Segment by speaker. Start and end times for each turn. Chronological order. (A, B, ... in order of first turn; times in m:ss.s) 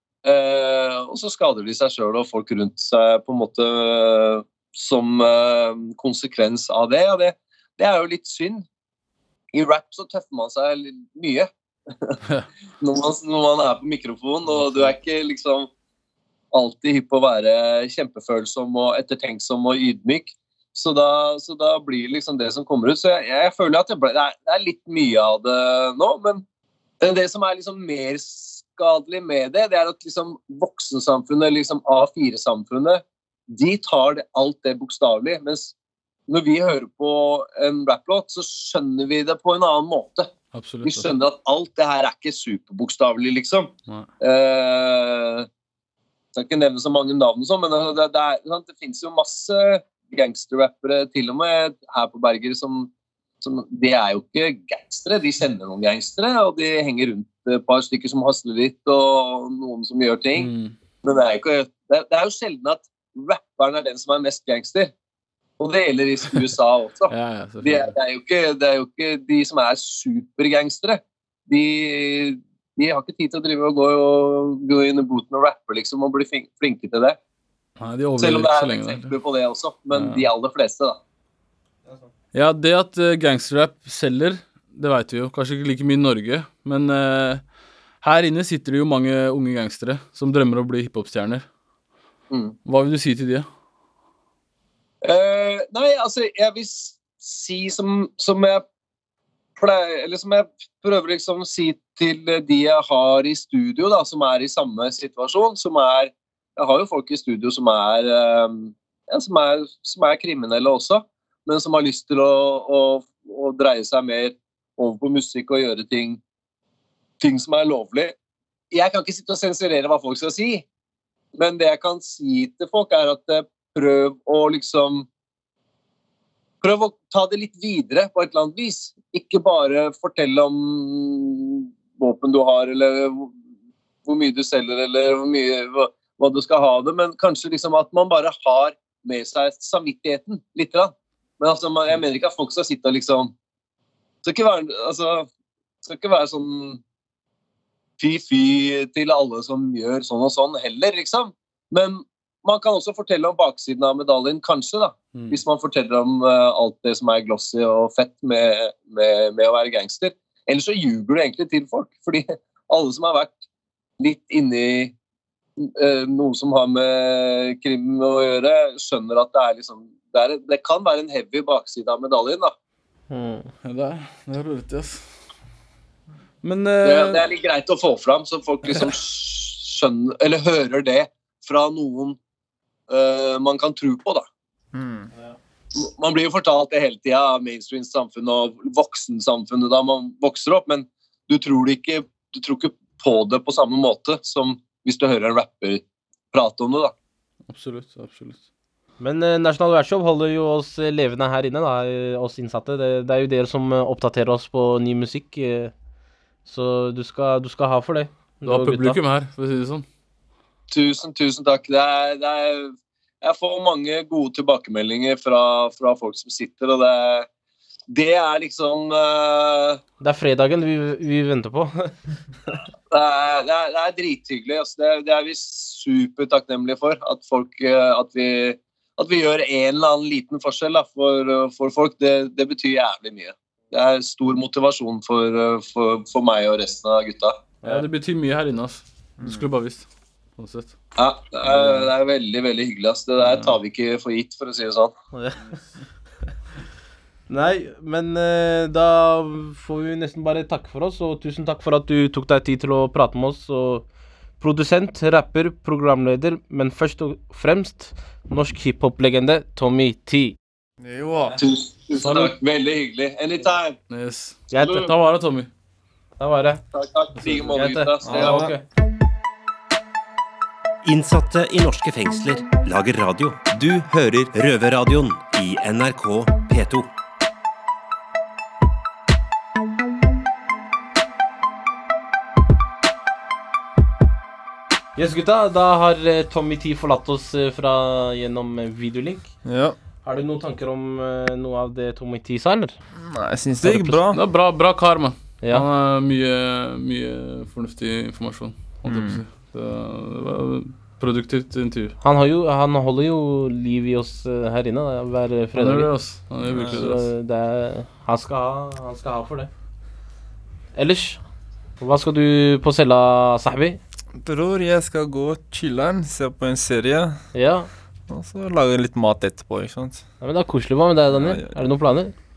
0:00.2-0:08.7 A
0:09.5-0:11.5 A
0:12.8-0:15.7 A
0:14.6-0:14.8 B
0:16.5-0:26.4 A
0:27.0-0:35.7 A
0:36.3-0:40.3 A
0:40.5-0:41.1 B
0:40.8-0:45.5 A
0:46.4-1:00.5 A
1:00.4-1:00.8 B
1:01.0-1:04.9 A
1:05.6-1:07.1 A
1:07.1-1:07.9 B
1:07.6-1:17.2 A
1:17.8-1:19.2 B
1:18.2-1:21.0 A
1:19.9-1:20.3 B
1:22.3-1:27.4 B
1:28.0-1:31.4 B
1:32.3-1:32.6 A
1:32.6-1:33.5 B
1:35.0-1:38.6 A
1:39.6-1:56.2 A
1:57.2-1:58.2 A
1:58.7-2:00.6 A
2:01.4-2:05.1 A
2:06.6-2:13.3 A
2:14.0-2:23.3 A
2:24.2-2:25.3 A
2:25.8-2:26.8 A
2:28.0-2:43.4 A
2:35.1-2:35.4 B
2:44.0-2:45.0 A
2:45.6-2:52.5 A
2:53.1-2:53.5 C
2:53.6-2:55.1 B
2:56.4-2:57.3 B
2:56.8-3:02.2 A
3:02.9-3:04.2 A
3:04.7-3:05.1 D
3:05.7-3:16.9 A
3:17.5-3:18.4 B
3:19.0-3:25.7 C
3:26.5-3:29.0 C
3:28.5-3:29.9 B
3:30.7-3:37.3 A
3:37.9-3:39.8 A
3:40.0-3:41.9 C
3:42.9-3:57.4 A
3:57.6-4:00.8 B
4:01.0-4:04.9 A
4:03.2-4:03.6 B
4:05.1-4:05.4 C
4:07.3-4:13.8 C
4:14.4-4:20.4 C
4:20.8-4:21.4 D
4:21.4-4:23.8 A
4:22.0-4:22.3 C
4:23.9-4:25.5 B
4:24.5-4:24.9 C
4:26.2-4:26.6 C
4:26.7-4:28.5 A
4:27.5-4:28.6 C
4:30.8-4:36.9 E
4:45.0-4:49.4 C
4:49.4-4:49.8 D
4:50.0-4:52.8 C
4:53.0-4:54.2 D
4:53.6-5:02.0 B
4:58.9-4:59.2 D
5:02.0-5:05.9 C
5:05.6-5:07.0 B
5:06.5-5:06.8 D
5:06.6-5:09.5 C
5:10.8-5:11.2 C
5:11.8-5:13.8 C
5:14.2-5:17.3 D
5:17.3-5:17.7 C
5:18.1-5:20.0 D
5:20.2-5:22.1 C
5:21.1-5:21.5 D